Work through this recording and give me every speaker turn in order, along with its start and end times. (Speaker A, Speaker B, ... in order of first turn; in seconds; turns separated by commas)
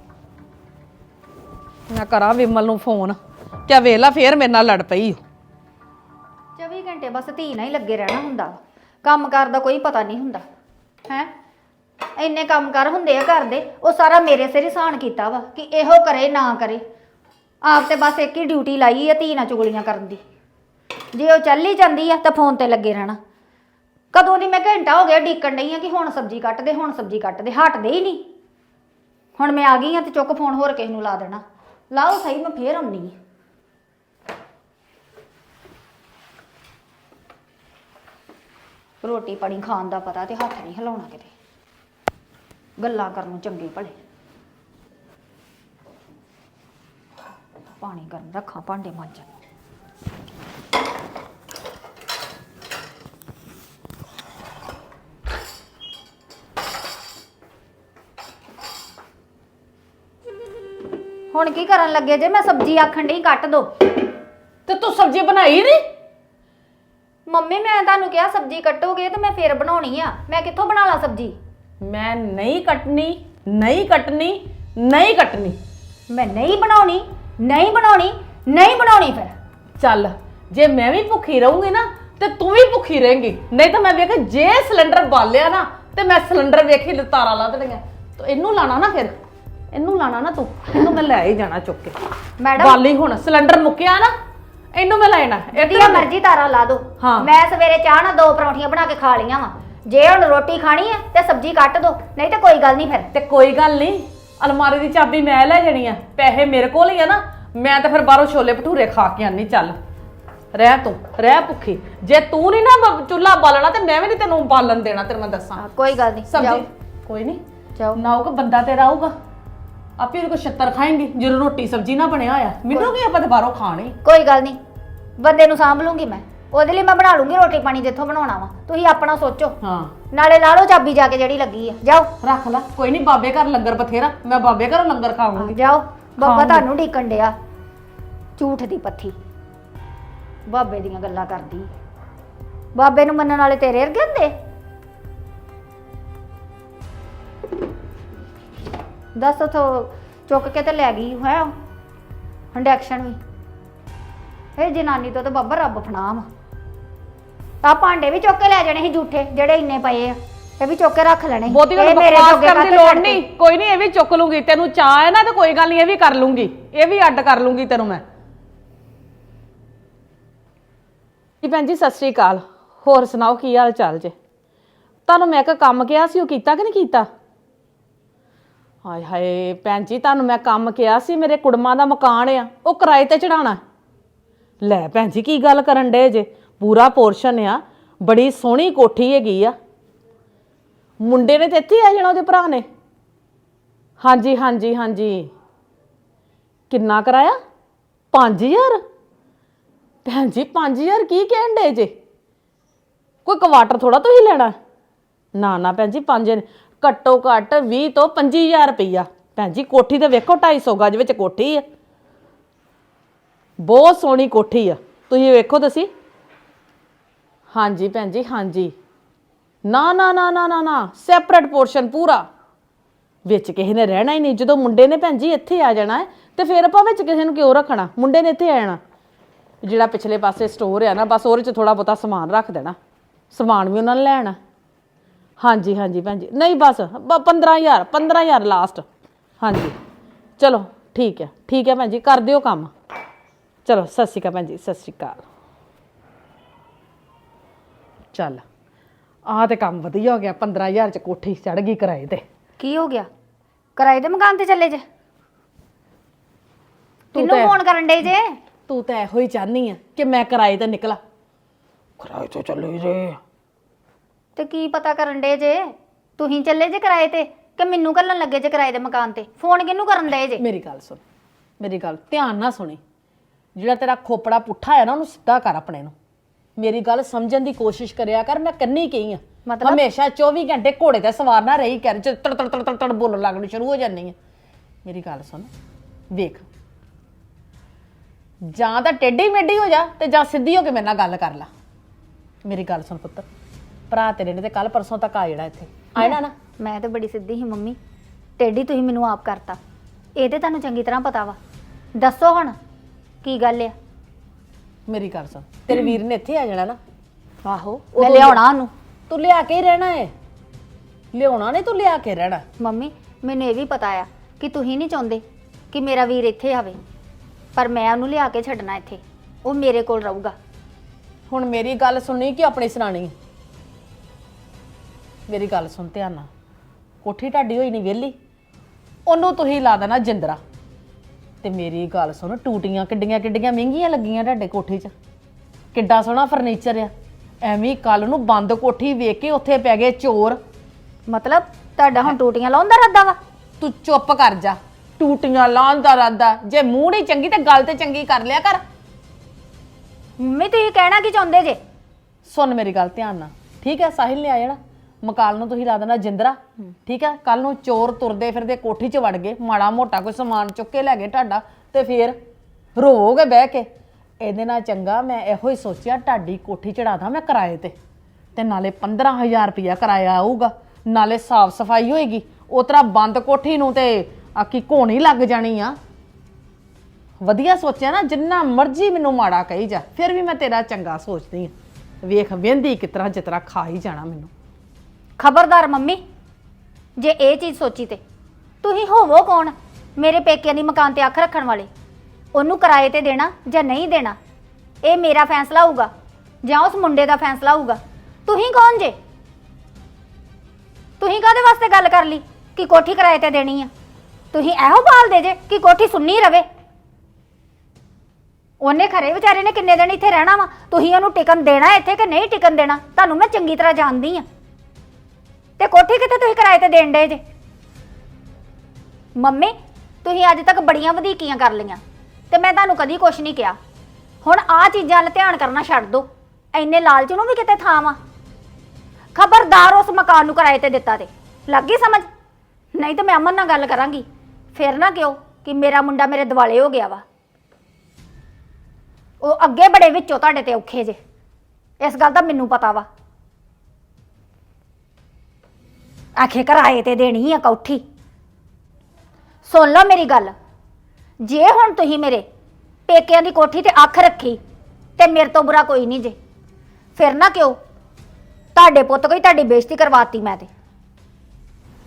Speaker A: 1.9-5.2, Speaker B: 6.6-10.4, Speaker B: 12.2-16.8, Speaker B: 17.6-20.2, Speaker B: 21.1-23.2, Speaker B: 24.1-28.2, Speaker B: 29.4-31.4, Speaker B: 31.9-33.1, Speaker B: 39.0-41.3, Speaker B: 42.8-44.0, Speaker B: 47.7-49.3, Speaker B: 61.3-63.7, Speaker A: 64.7-65.8, Speaker B: 67.3-71.3, Speaker A: 71.8-75.6, Speaker B: 76.1-79.3, Speaker A: 79.8-89.1, Speaker A: 89.7-91.9, Speaker B: 92.4-92.8, Speaker A: 92.6-94.1, Speaker A: 94.7-96.1, Speaker B: 95.5-103.1, Speaker A: 97.0-97.3, Speaker A: 103.1-109.8, Speaker A: 110.5-115.6, Speaker B: 115.6-116.6, Speaker A: 116.3-117.4, Speaker A: 117.9-119.1, Speaker A: 120.0-124.0, Speaker B: 124.0-124.6, Speaker B: 125.2-129.6, Speaker A: 129.6-129.9, Speaker B: 130.1-132.1, Speaker A: 132.2-135.6, Speaker B: 135.4-137.3, Speaker A: 136.2-136.7, Speaker B: 138.4-139.1, Speaker B: 140.5-141.7, Speaker B: 142.8-144.3, Speaker B: 149.2-151.5, Speaker B: 152.5-153.2, Speaker B: 154.6-156.3, Speaker B: 157.6-163.2, Speaker A: 161.5-168.0, Speaker A: 171.4-174.1, Speaker A: 175.1-177.1, Speaker A: 178.8-183.6, Speaker A: 184.6-189.5, Speaker A: 191.0-192.6, Speaker A: 194.0-195.3, Speaker A: 196.7-197.4, Speaker A: 198.1-198.8, Speaker A: 200.0-201.9, Speaker A: 203.2-204.5, Speaker A: 205.4-211.6, Speaker A: 213.6-215.9, Speaker A: 217.5-218.7, Speaker A: 219.6-222.3, Speaker A: 223.2-228.8, Speaker A: 229.6-232.8, Speaker A: 233.3-234.4, Speaker A: 235.4-238.8, Speaker A: 239.4-239.8, Speaker A: 240.4-242.7, Speaker A: 243.7-245.2, Speaker A: 248.1-248.4, Speaker A: 249.3-252.2, Speaker B: 252.6-253.1, Speaker B: 253.8-254.8, Speaker A: 257.1-257.6, Speaker B: 257.1-258.4, Speaker A: 258.7-261.0, Speaker A: 262.0-263.2, Speaker B: 264.4-270.4, Speaker A: 270.4-271.0, Speaker A: 271.6-272.8, Speaker A: 273.6-275.9, Speaker A: 276.6-284.1, Speaker B: 279.4-279.8, Speaker A: 284.8-285.5, Speaker A: 286.1-286.5, Speaker A: 288.4-291.5, Speaker A: 292.4-293.3, Speaker A: 293.9-296.3, Speaker B: 296.0-297.8, Speaker B: 298.4-299.6, Speaker B: 300.2-301.4, Speaker B: 302.0-302.6, Speaker B: 303.2-303.7, Speaker A: 304.9-306.8, Speaker A: 307.4-308.4, Speaker B: 308.0-308.7, Speaker A: 309.1-310.1, Speaker A: 311.1-312.4, Speaker B: 312.6-316.8, Speaker B: 317.6-320.3, Speaker A: 321.3-323.1, Speaker A: 325.3-326.3, Speaker A: 327.0-328.1, Speaker A: 329.1-330.4, Speaker A: 331.4-334.9, Speaker A: 335.7-336.9, Speaker A: 337.4-340.4, Speaker B: 341.1-343.2, Speaker A: 343.6-348.6, Speaker B: 350.2-351.6, Speaker A: 352.2-362.2, Speaker A: 362.8-363.7, Speaker A: 364.2-367.7, Speaker A: 368.3-375.8, Speaker A: 377.2-381.5, Speaker A: 382.0-384.3, Speaker B: 385.2-386.0, Speaker B: 387.0-388.0, Speaker B: 388.6-391.7, Speaker B: 392.3-394.2, Speaker B: 394.8-395.9, Speaker B: 396.4-398.9, Speaker B: 401.0-403.7, Speaker B: 404.3-406.4, Speaker B: 408.6-414.2, Speaker B: 415.6-417.2, Speaker B: 419.2-421.8, Speaker B: 422.3-423.6, Speaker B: 424.2-428.0, Speaker B: 429.1-432.1, Speaker B: 432.8-437.0, Speaker B: 439.2-441.0, Speaker B: 441.8-442.9, Speaker B: 446.2-447.8, Speaker B: 449.4-450.3, Speaker B: 451.2-452.2, Speaker B: 452.9-454.4, Speaker B: 455.0-456.1, Speaker B: 456.9-457.6, Speaker B: 458.6-460.5